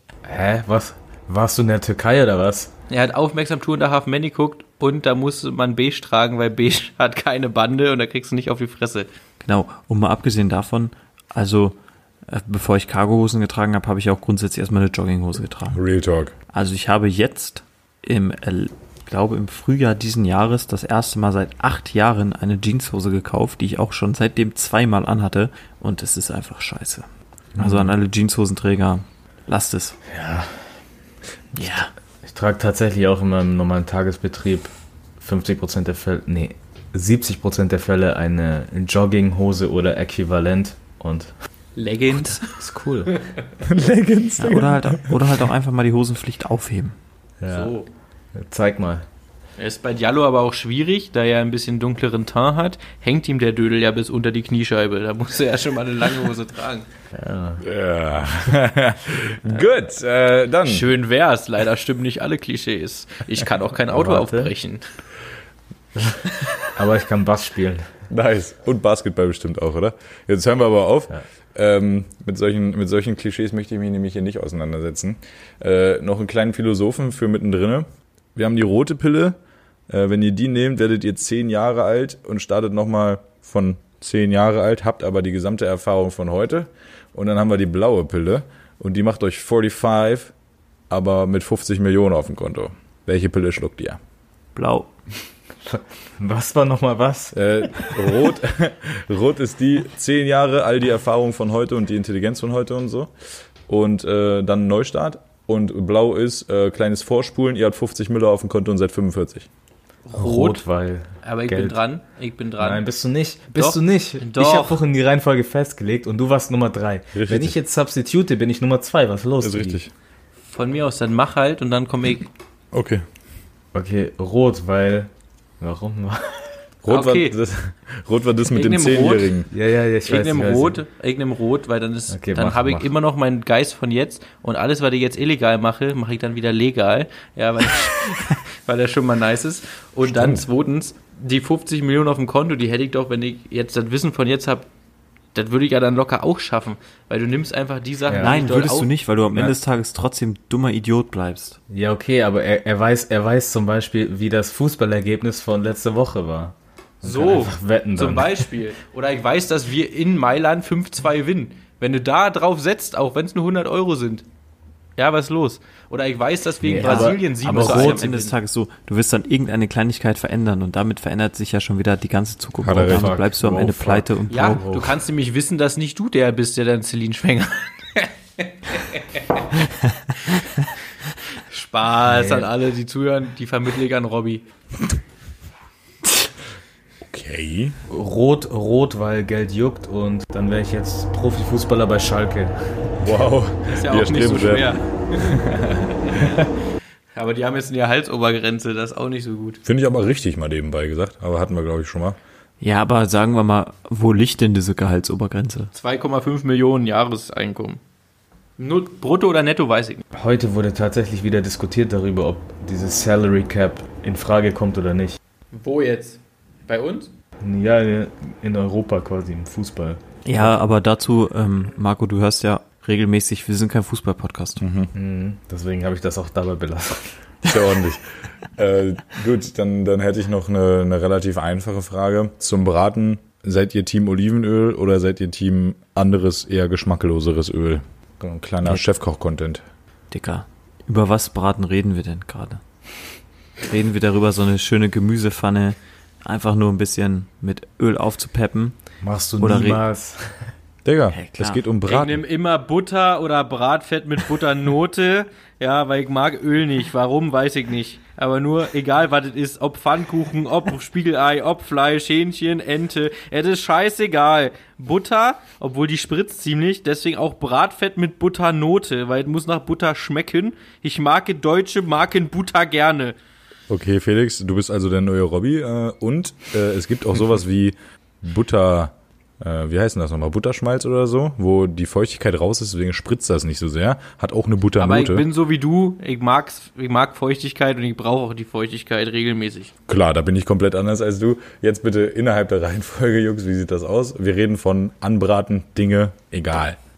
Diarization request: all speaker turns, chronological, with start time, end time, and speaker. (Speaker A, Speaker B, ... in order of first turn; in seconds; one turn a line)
Speaker A: 0.2-2.7
Speaker B: 2.9-9.1
Speaker C: 9.4-15.8
Speaker D: 15.7-16.3
Speaker C: 16.5-30.0
Speaker A: 30.1-30.5
Speaker C: 31.5-31.9
Speaker A: 32.2-41.3
Speaker B: 41.8-42.5
Speaker A: 42.6-43.1
Speaker D: 43.6-45.1
Speaker C: 44.4-47.0
Speaker A: 47.4-47.7
Speaker B: 47.5-47.9
Speaker A: 48.3-49.0
Speaker B: 49.6-56.9
Speaker A: 57.1-57.6
Speaker D: 57.6-60.9
Speaker B: 60.6-64.8
Speaker A: 63.9-64.5
Speaker A: 66.0-67.9
Speaker D: 68.1-79.4
Speaker D: 79.9-90.3
Speaker D: 90.9-94.0
Speaker C: 94.5-94.9
Speaker A: 95.6-98.2
Speaker D: 97.3-103.1
Speaker D: 103.7-109.5
Speaker B: 110.0-110.6
Speaker A: 110.2-111.8
Speaker B: 111.2-112.8
Speaker A: 112.6-119.8
Speaker B: 113.5-114.8
Speaker D: 117.1-117.6
Speaker D: 119.4-119.9
Speaker B: 120.5-122.3
Speaker D: 122.7-123.0
Speaker A: 123.7-125.1
Speaker A: 125.6-126.5
Speaker D: 126.8-129.5
Speaker B: 126.9-127.4
Speaker B: 128.5-129.4
Speaker A: 129.5-130.8
Speaker B: 130.0-144.7
Speaker A: 132.1-132.8
Speaker D: 140.1-140.4
Speaker B: 145.3-148.9
Speaker A: 148.1-148.3
Speaker C: 148.2-151.6
Speaker A: 151.7-158.5
Speaker B: 157.0-164.2
Speaker B: 165.0-168.3
Speaker A: 166.6-168.0
Speaker C: 166.8-174.6
Speaker D: 172.6-173.2
Speaker A: 172.9-175.0
Speaker B: 174.3-179.4
Speaker B: 181.5-184.4
Speaker A: 182.0-182.5
Speaker D: 187.0-187.8
Speaker A: 187.9-192.9
Speaker D: 193.0-196.1
Speaker B: 193.7-195.4
Speaker B: 196.0-196.3
Speaker B: 197.1-199.6
Speaker D: 199.7-202.2
Speaker C: 202.6-205.7
Speaker B: 205.7-207.8
Speaker B: 208.6-210.0
Speaker A: 210.1-215.2
Speaker B: 215.5-217.1
Speaker A: 217.4-220.6
Speaker C: 220.2-224.6
Speaker D: 224.6-224.9
Speaker A: 224.9-227.2
Speaker D: 227.4-239.6
Speaker C: 240.1-242.6
Speaker C: 243.7-248.7
Speaker A: 249.0-250.3
Speaker C: 249.4-249.8
Speaker D: 250.8-252.2
Speaker C: 251.1-251.6
Speaker B: 251.8-273.1
Speaker D: 273.7-285.2
Speaker B: 284.8-289.7
Speaker D: 289.9-296.8